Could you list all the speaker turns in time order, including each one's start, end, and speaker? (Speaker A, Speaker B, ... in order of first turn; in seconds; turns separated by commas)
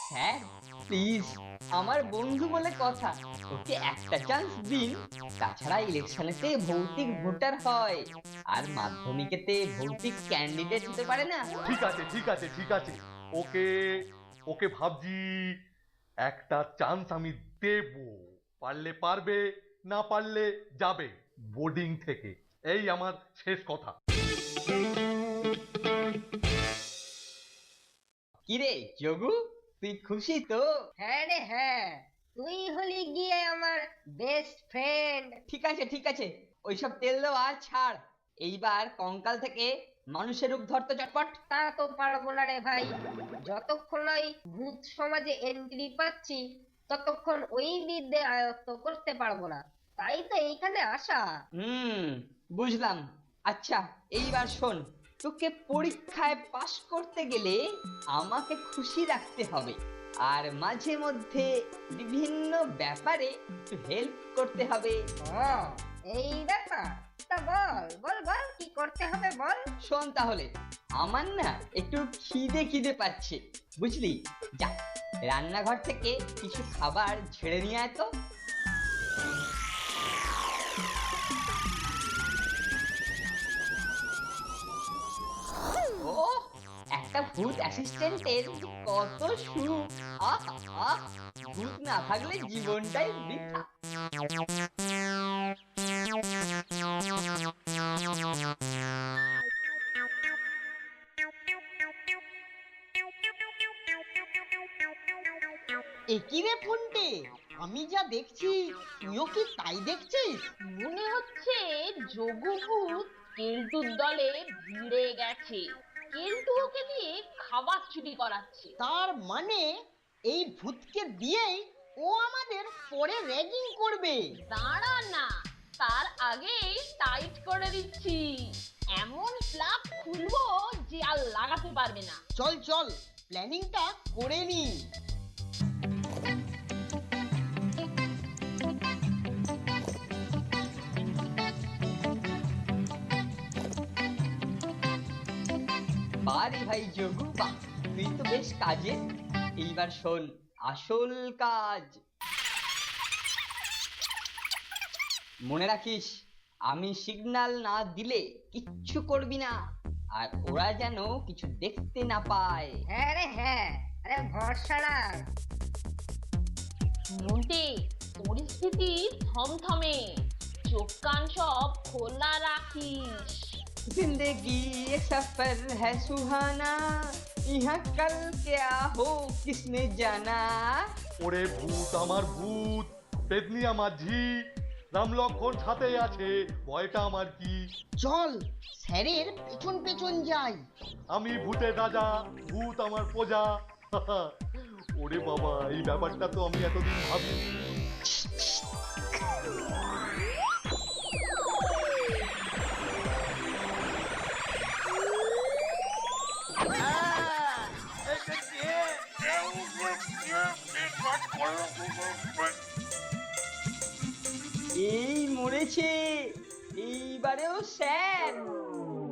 Speaker A: 0.1-11.4, Speaker B: 11.6-13.7, Speaker B: 14.5-15.2, Speaker B: 16.2-23.9, Speaker A: 28.5-30.7, Speaker C: 31.0-35.4, Speaker A: 35.5-41.4, Speaker C: 41.5-42.9, Speaker C: 43.5-51.2, Speaker A: 51.6-57.6, Speaker A: 58.1-59.8, Speaker A: 60.3-65.0, Speaker C: 65.3-69.6, Speaker A: 69.9-74.7, Speaker A: 75.3-78.1, Speaker A: 86.0-86.3, Speaker A: 87.0-91.0, Speaker A: 91.5-93.6, Speaker D: 106.1-110.5, Speaker E: 110.7-118.7, Speaker D: 118.8-119.7, Speaker D: 120.3-124.2, Speaker E: 124.5-125.3, Speaker E: 125.8-128.4, Speaker E: 129.0-132.2, Speaker D: 132.4-134.8, Speaker A: 146.2-149.0, Speaker A: 149.6-152.0, Speaker A: 155.5-156.1, Speaker A: 156.7-159.5, Speaker A: 160.2-162.8, Speaker C: 162.9-165.2, Speaker E: 167.1-170.0, Speaker E: 170.7-173.6, Speaker A: 173.9-176.8, Speaker A: 177.5-180.6, Speaker B: 181.2-184.2, Speaker B: 184.9-187.6, Speaker D: 188.0-190.6, Speaker B: 191.1-194.3, Speaker B: 195.0-197.5, Speaker B: 206.8-212.3, Speaker A: 214.8-218.5